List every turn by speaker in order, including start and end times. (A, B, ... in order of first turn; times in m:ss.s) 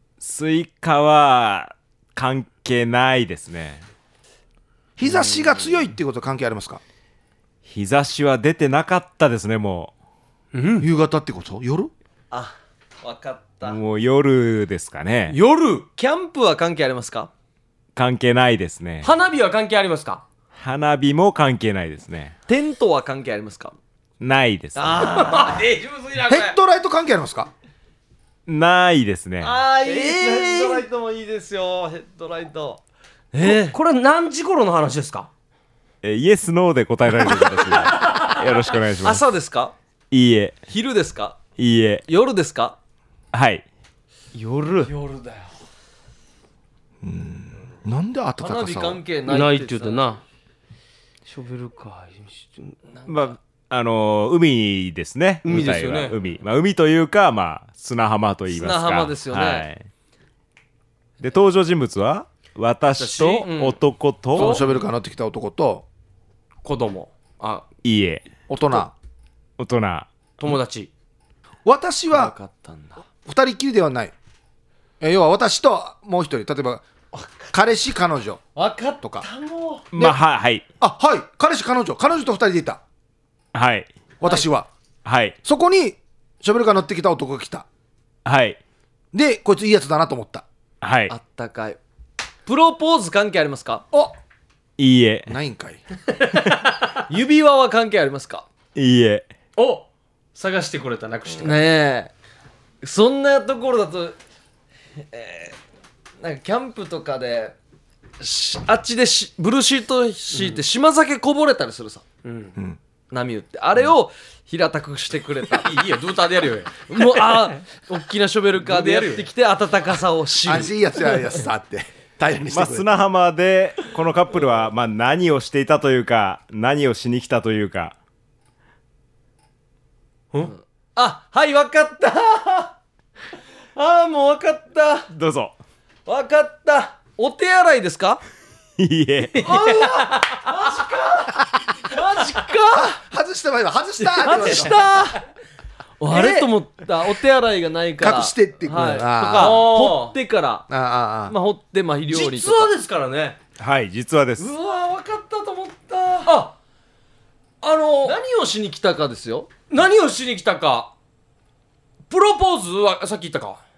0:00.2-0:03.8 A
0:05.0-0:06.8 B
0:05.0-0:05.8 C
0:07.6-0:09.9 A
0:10.5-0:10.9 D
0:10.8-0:11.9 B
0:12.3-0:13.8 C
0:13.6-0:15.4 A
0:15.3-0:15.8 D
0:15.9-0:17.3 C
0:18.0-0:19.1 A
0:19.0-0:20.2 D
0:20.6-0:22.3 A
0:22.5-0:23.8 C
0:24.2-0:25.2 A
0:24.8-0:25.6 C
0:25.1-0:26.6 D
0:26.2-0:27.5 B
0:28.5-0:29.6 A
0:29.4-0:32.8 C
0:29.9-0:30.8 D
0:33.3-0:33.8 C
0:33.4-0:35.3 D
0:36.0-0:39.2 A
0:37.7-0:38.2 C
0:39.0-0:39.7 C
0:40.1-0:40.6 A
0:40.7-0:41.4 C
0:41.6-0:42.0 A
0:42.1-0:42.8 C
0:43.3-0:43.6 A
0:44.3-0:44.9 D
0:44.8-0:45.5 C
0:47.0-0:49.0 B
0:48.4-0:50.2 C
0:49.3-0:50.2 D
0:51.3-0:52.7 D
0:53.1-0:59.8 A
0:55.4-0:56.2 D
0:58.5-0:59.7 C
1:01.2-1:04.6 A
1:02.9-1:03.5 D
1:03.4-1:03.8 C
1:04.4-1:04.8 D
1:04.4-1:05.8 B
1:06.6-1:07.6 D
1:07.8-1:08.2 A
1:08.5-1:08.9 B
1:09.6-1:10.1 A
1:10.4-1:10.9 D
1:11.6-1:12.3 B
1:12.1-1:13.0 C
1:13.2-1:14.1 B
1:15.0-1:16.8 B
1:17.5-1:18.4 B
1:18.5-1:19.9 C
1:19.9-1:20.6 A
1:20.8-1:22.8 B
1:23.5-1:23.9 A
1:24.2-1:24.7 B
1:25.0-1:25.4 A
1:25.4-1:27.6 B
1:28.2-1:28.6 A
1:29.1-1:30.4 B
1:30.8-1:31.1 A
1:31.1-1:31.8 C
1:32.4-1:33.8 C
1:34.8-1:35.3 A
1:35.3-1:35.8 B
1:37.1-1:38.4 C
1:38.7-1:39.3 A
1:39.6-1:41.6 D
1:41.4-1:42.1 C
1:42.8-1:44.2 C
1:45.1-1:45.6 C
1:46.2-1:47.5 C
1:48.2-1:52.0 C
1:50.3-1:50.6 D
1:52.2-1:52.5 D
1:53.1-1:55.8 C
1:55.6-1:57.5 D
1:56.9-2:00.8 C
1:58.6-1:59.3 D
2:00.4-2:02.8 B
2:02.5-2:07.9 A
2:10.4-2:12.8 C
2:13.8-2:15.1 C
2:15.1-2:15.6 A
2:16.0-2:18.2 C
2:18.8-2:19.8 A
2:19.4-2:20.8 D
2:19.4-2:23.0 C
2:22.7-2:24.8 B
2:24.1-2:25.2 C
2:24.2-2:24.8 D
2:26.0-2:30.7 C
2:26.1-2:26.5 D
2:28.0-2:29.7 B
2:29.2-2:30.1 D
2:30.7-2:31.3 B
2:31.3-2:32.7 C
2:32.1-2:33.4 D
2:33.6-2:34.5 A
2:34.4-2:36.3 C
2:36.2-2:36.5 D
2:37.6-2:38.2 D
2:38.0-2:39.5 C
2:39.7-2:40.9 D
2:42.1-2:43.6 D